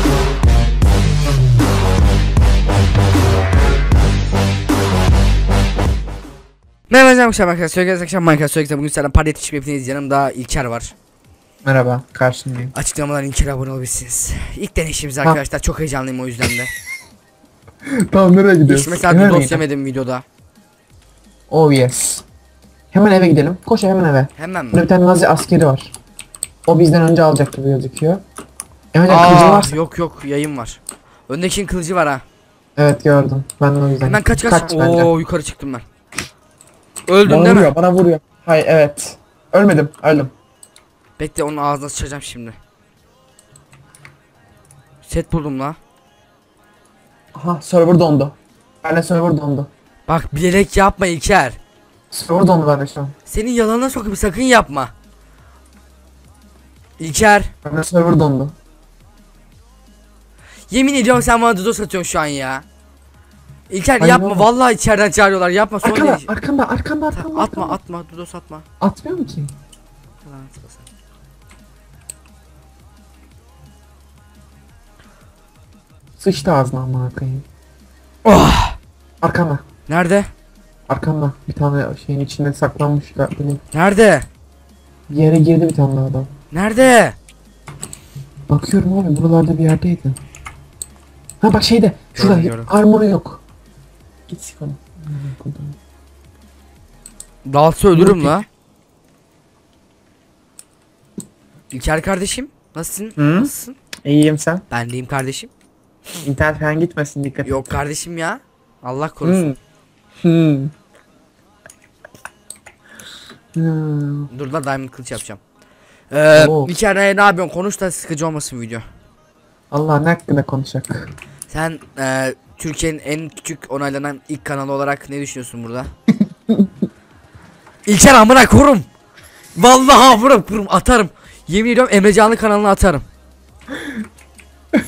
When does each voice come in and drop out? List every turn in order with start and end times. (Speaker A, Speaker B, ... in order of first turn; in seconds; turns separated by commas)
Speaker A: 6.9-10.9, Speaker B: 11.6-12.7, Speaker A: 12.7-16.7, Speaker B: 18.1-19.6, Speaker A: 18.6-20.2, Speaker B: 21.5-22.2, Speaker B: 22.9-25.9, Speaker A: 24.4-24.8, Speaker B: 26.7-28.2, Speaker B: 28.9-29.8, Speaker A: 29.1-32.2, Speaker B: 32.8-35.1, Speaker A: 34.0-35.8, Speaker A: 37.1-37.7, Speaker B: 37.2-40.3, Speaker A: 41.2-42.6, Speaker A: 45.0-45.8, Speaker B: 47.3-49.7, Speaker A: 50.1-51.6, Speaker B: 52.1-53.1, Speaker A: 53.3-54.9, Speaker A: 57.0-57.5, Speaker B: 57.6-58.5, Speaker A: 60.7-62.6, Speaker A: 63.7-66.3, Speaker B: 64.0-64.5, Speaker B: 65.8-67.8, Speaker A: 67.1-68.7, Speaker B: 68.8-69.5, Speaker A: 70.2-70.9, Speaker B: 76.2-77.4, Speaker A: 78.2-78.8, Speaker B: 79.2-79.6, Speaker A: 79.9-80.3, Speaker B: 80.9-83.6, Speaker A: 83.7-84.3, Speaker B: 85.1-86.3, Speaker A: 86.5-87.2, Speaker B: 88.5-90.2, Speaker B: 91.4-93.4, Speaker A: 92.2-92.7, Speaker B: 94.3-95.8, Speaker A: 97.4-98.5, Speaker B: 97.9-98.4, Speaker A: 101.7-103.8, Speaker B: 103.2-103.5, Speaker B: 104.0-104.6, Speaker A: 104.7-105.5, Speaker B: 106.2-107.8, Speaker A: 107.4-109.5, Speaker B: 109.2-109.6, Speaker B: 110.2-110.7, Speaker B: 113.5-114.3, Speaker A: 114.3-115.4, Speaker A: 116.1-118.8, Speaker B: 116.3-116.7, Speaker B: 119.7-121.1, Speaker A: 121.5-125.9, Speaker A: 127.8-128.9, Speaker A: 129.6-133.1